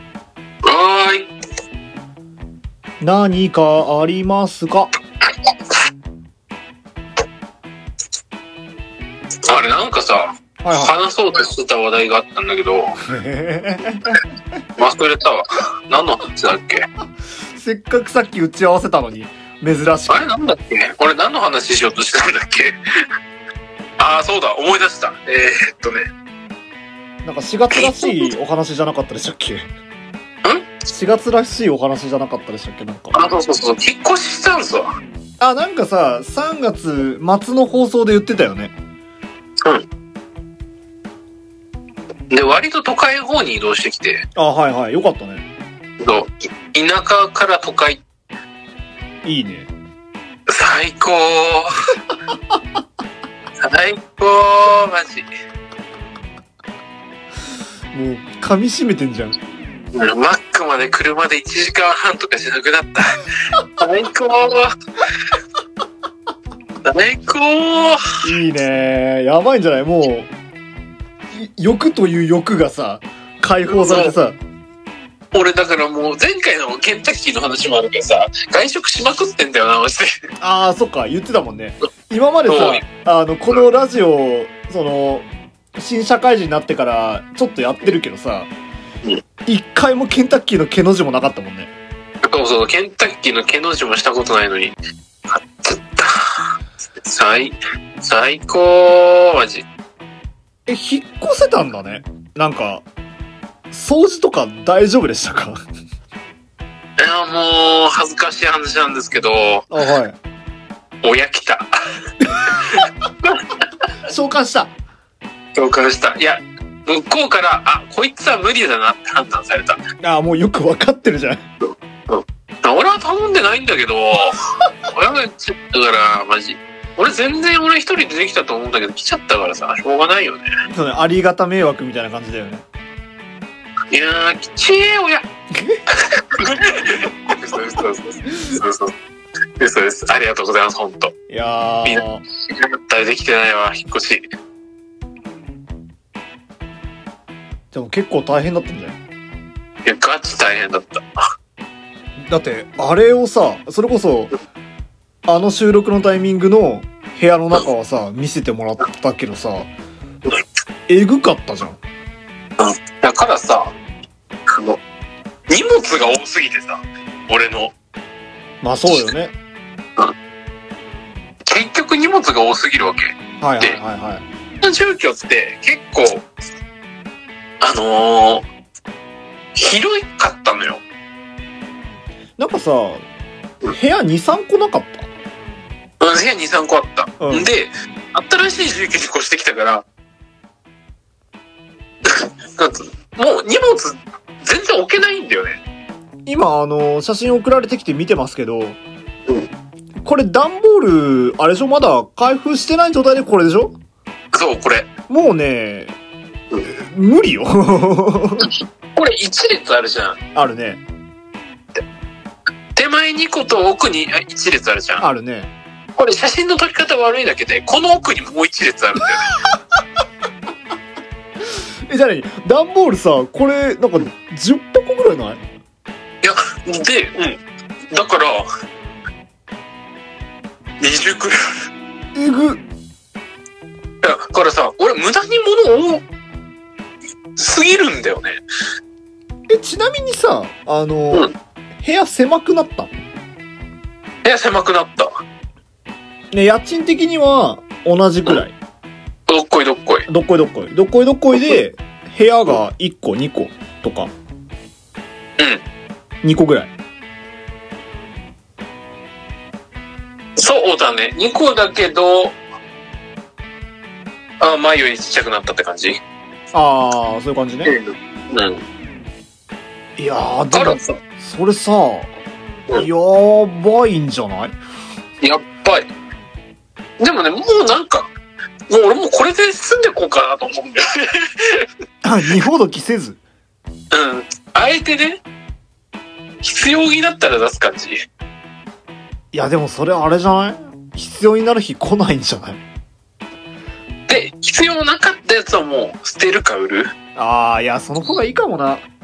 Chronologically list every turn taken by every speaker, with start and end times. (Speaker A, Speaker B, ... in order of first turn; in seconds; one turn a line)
Speaker A: 0.6-1.3
Speaker B: 3.0-4.9
Speaker A: 9.5-13.0
Speaker B: 10.6-11.0
Speaker B: 13.1-14.6
Speaker A: 14.8-16.9
Speaker B: 17.6-20.3
Speaker A: 20.1-22.8
Speaker A: 24.0-26.1
Speaker B: 27.2-29.7
Speaker A: 27.7-28.3
Speaker A: 30.4-30.8
Speaker B: 30.9-33.2
Speaker A: 33.1-34.9
Speaker B: 35.4-38.7
Speaker A: 42.3-44.2
Speaker B: 44.4-45.5
Speaker A: 46.0-48.0
Speaker B: 49.2-49.7
Speaker A: 50.5-51.8
Speaker A: 53.6-55.3
Speaker B: 57.9-59.4
Speaker A: 59.9-63.2
Speaker A: 63.8-64.7
Speaker A: 66.8-68.0
Speaker B: 68.2-70.3
Speaker B: 71.3-74.4
Speaker A: 73.7-74.1
Speaker A: 75.3-80.1
Speaker B: 80.4-88.5
Speaker A: 82.5-82.8
Speaker B: 89.5-91.7
Speaker A: 92.3-94.8
Speaker A: 95.3-96.5
Speaker A: 97.0-99.7
Speaker B: 100.7-102.9
Speaker B: 103.7-105.6
Speaker A: 107.0-109.7
Speaker B: 109.7-110.2
Speaker A: 111.0-111.7
Speaker A: 112.4-113.4
Speaker B: 114.1-114.7
Speaker A: 115.5-119.8
Speaker B: 120.0-121.5
Speaker A: 122.1-130.5
Speaker B: 130.7-132.7
Speaker A: 133.9-135.3
Speaker B: 135.5-135.8
Speaker A: 136.2-138.9
Speaker A: 139.6-141.1
Speaker B: 141.3-142.2
Speaker A: 141.9-144.3
Speaker B: 147.7-149.0
Speaker A: 149.8-151.0
Speaker B: 152.3-154.3
Speaker B: 155.3-159.7
Speaker B: 160.9-161.8
Speaker A: 162.6-163.7
Speaker A: 164.5-164.8
Speaker A: 165.5-167.7
Speaker B: 168.6-169.3
Speaker A: 171.5-173.8
Speaker B: 173.4-174.3
Speaker A: 174.6-176.3
Speaker A: 177.6-178.4
Speaker A: 179.6-180.8
Speaker B: 182.4-183.1
Speaker B: 183.7-185.1
Speaker A: 186.0-189.9
Speaker B: 187.2-187.5
Speaker A: 192.1-195.6
Speaker B: 196.3-198.8
Speaker B: 200.0-203.8
Speaker A: 204.3-204.9
Speaker B: 205.1-206.0
Speaker B: 206.7-208.5
Speaker A: 208.4-210.2
Speaker B: 210.3-210.8
Speaker A: 212.8-215.1
Speaker B: 215.0-215.5
Speaker A: 216.0-219.3
Speaker B: 221.9-225.4
Speaker A: 226.2-227.4
Speaker A: 227.9-228.5
Speaker A: 230.8-231.4
Speaker B: 232.2-232.6
Speaker A: 234.0-236.0
Speaker A: 237.4-238.4
Speaker B: 239.5-241.3
Speaker B: 241.8-242.9
Speaker A: 244.2-245.1
Speaker B: 246.3-248.6
Speaker A: 249.3-250.1
Speaker B: 250.1-254.1
Speaker B: 256.2-256.7
Speaker A: 260.4-262.4
Speaker A: 264.4-266.0
Speaker B: 266.5-267.8
Speaker A: 267.7-268.6
Speaker B: 270.0-272.1
Speaker A: 270.5-271.0
Speaker B: 272.8-274.6
Speaker A: 275.2-275.9
Speaker A: 277.0-278.1
Speaker A: 278.7-281.6
Speaker B: 282.0-283.2
Speaker A: 283.9-285.2
Speaker A: 286.4-288.0
Speaker B: 289.3-292.6
Speaker A: 294.1-296.9
Speaker B: 297.2-298.9